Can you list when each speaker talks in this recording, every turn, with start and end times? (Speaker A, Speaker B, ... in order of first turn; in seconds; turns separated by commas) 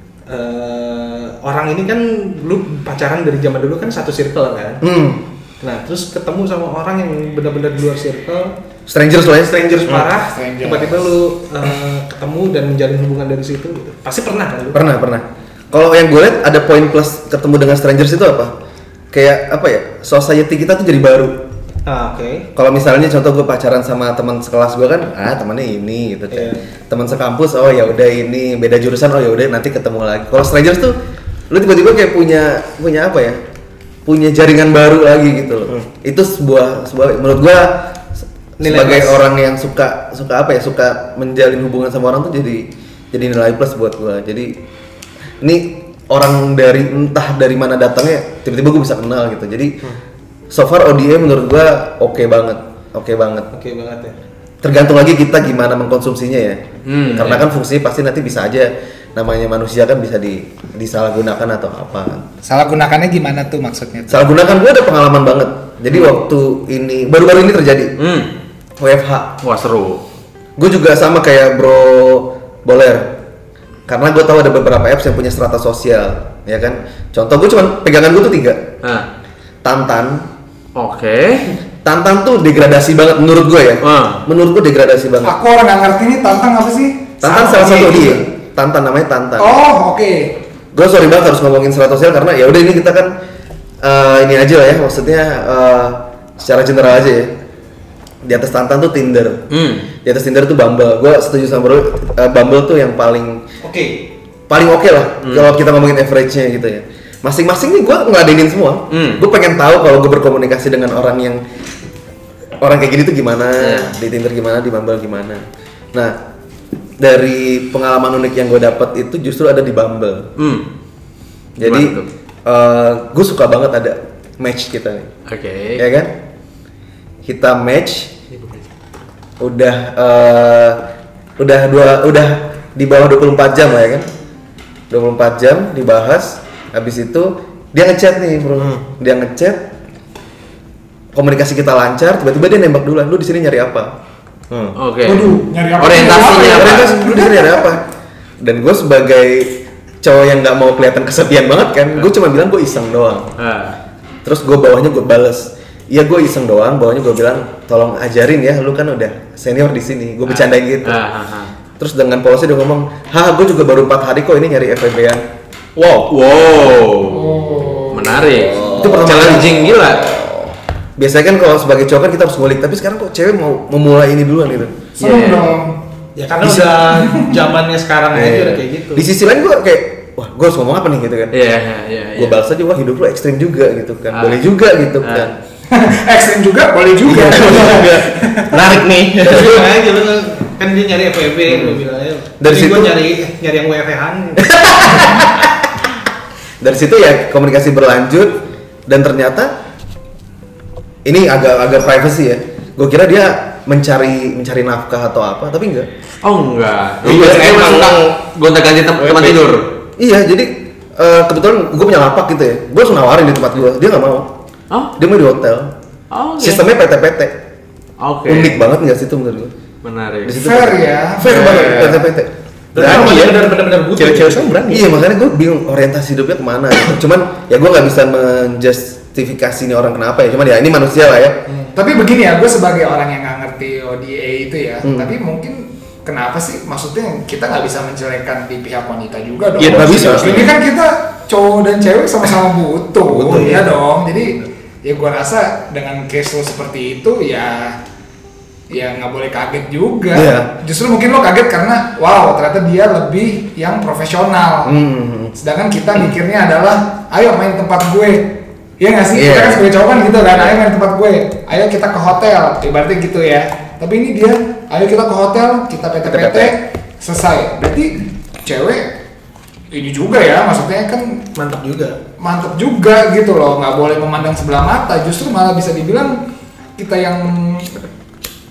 Speaker A: 0.3-4.8, Speaker B: 4.8-5.2, Speaker A: 5.6-8.5, Speaker B: 8.9-10.0, Speaker A: 9.4-14.9, Speaker C: 10.2-11.1, Speaker B: 14.7-18.5, Speaker B: 19.1-21.4, Speaker A: 21.9-22.5, Speaker B: 22.6-30.9, Speaker A: 26.3-26.6, Speaker B: 31.5-33.4, Speaker B: 34.0-37.9, Speaker A: 38.6-39.2, Speaker B: 38.6-44.5, Speaker B: 45.4-49.8, Speaker B: 50.5-53.5, Speaker A: 53.5-54.1, Speaker B: 54.6-62.2, Speaker D: 56.9-57.4, Speaker C: 62.4-64.2, Speaker B: 64.1-67.9, Speaker D: 68.0-68.3, Speaker B: 68.8-69.3, Speaker D: 69.4-70.0, Speaker B: 70.6-73.1, Speaker B: 73.9-78.7, Speaker B: 79.6-80.2, Speaker D: 80.8-81.5, Speaker B: 81.8-85.3, Speaker D: 83.8-84.2, Speaker C: 85.2-87.2, Speaker B: 87.2-89.5, Speaker A: 87.2-88.1, Speaker C: 89.4-90.3, Speaker B: 90.7-93.1, Speaker B: 93.8-97.3, Speaker B: 98.2-99.4, Speaker D: 99.5-99.8, Speaker B: 100.0-103.4, Speaker A: 103.6-104.0, Speaker B: 104.5-111.4, Speaker D: 105.2-105.5, Speaker D: 108.9-109.2, Speaker B: 112.6-116.2, Speaker D: 113.6-113.9, Speaker B: 117.0-120.3, Speaker D: 120.4-120.6, Speaker B: 121.6-125.1, Speaker D: 121.6-122.1, Speaker D: 125.3-125.8, Speaker B: 125.8-126.1, Speaker B: 127.2-128.1, Speaker B: 129.4-130.8, Speaker B: 131.4-134.1, Speaker B: 134.9-139.7, Speaker B: 141.1-143.9, Speaker D: 144.7-147.0, Speaker C: 145.0-147.7, Speaker B: 146.5-147.8, Speaker B: 148.4-153.3, Speaker D: 153.4-153.8, Speaker B: 154.2-161.0, Speaker D: 160.3-161.5, Speaker B: 161.8-165.2, Speaker E: 165.8-166.1, Speaker D: 166.1-170.0, Speaker C: 167.1-168.7, Speaker B: 168.5-170.1, Speaker B: 171.0-174.9, Speaker C: 175.0-175.8, Speaker D: 175.0-175.6, Speaker A: 176.2-179.1, Speaker C: 177.0-177.3, Speaker B: 178.1-181.3, Speaker D: 181.3-182.4, Speaker B: 182.2-185.3, Speaker D: 184.1-184.4, Speaker D: 185.0-185.3, Speaker C: 185.7-188.7, Speaker E: 187.0-189.7, Speaker B: 187.1-187.8, Speaker A: 189.2-195.1, Speaker B: 192.4-193.0, Speaker B: 194.5-195.5, Speaker B: 196.6-199.5, Speaker B: 201.0-205.9, Speaker D: 206.2-209.7, Speaker E: 207.0-208.1, Speaker E: 209.0-209.5, Speaker B: 210.0-214.3, Speaker B: 215.0-215.7, Speaker D: 216.1-216.6, Speaker B: 216.4-217.3, Speaker D: 218.0-218.6, Speaker B: 218.3-219.5, Speaker D: 219.8-220.3, Speaker B: 220.2-223.2, Speaker C: 220.3-221.9, Speaker E: 221.3-221.9, Speaker A: 222.7-224.6, Speaker E: 222.7-225.0, Speaker B: 224.7-231.4, Speaker A: 231.5-231.7, Speaker C: 231.7-247.8, Speaker B: 234.8-235.1, Speaker E: 239.6-240.5, Speaker B: 239.6-240.5, Speaker B: 243.1-243.7, Speaker A: 243.3-243.7, Speaker C: 248.7-254.7, Speaker B: 250.1-250.5, Speaker B: 254.6-255.3, Speaker C: 255.3-268.9, Speaker B: 259.1-259.6, Speaker B: 266.1-266.5, Speaker C: 269.7-271.2, Speaker A: 271.4-272.0, Speaker C: 272.2-276.2, Speaker C: 276.8-277.8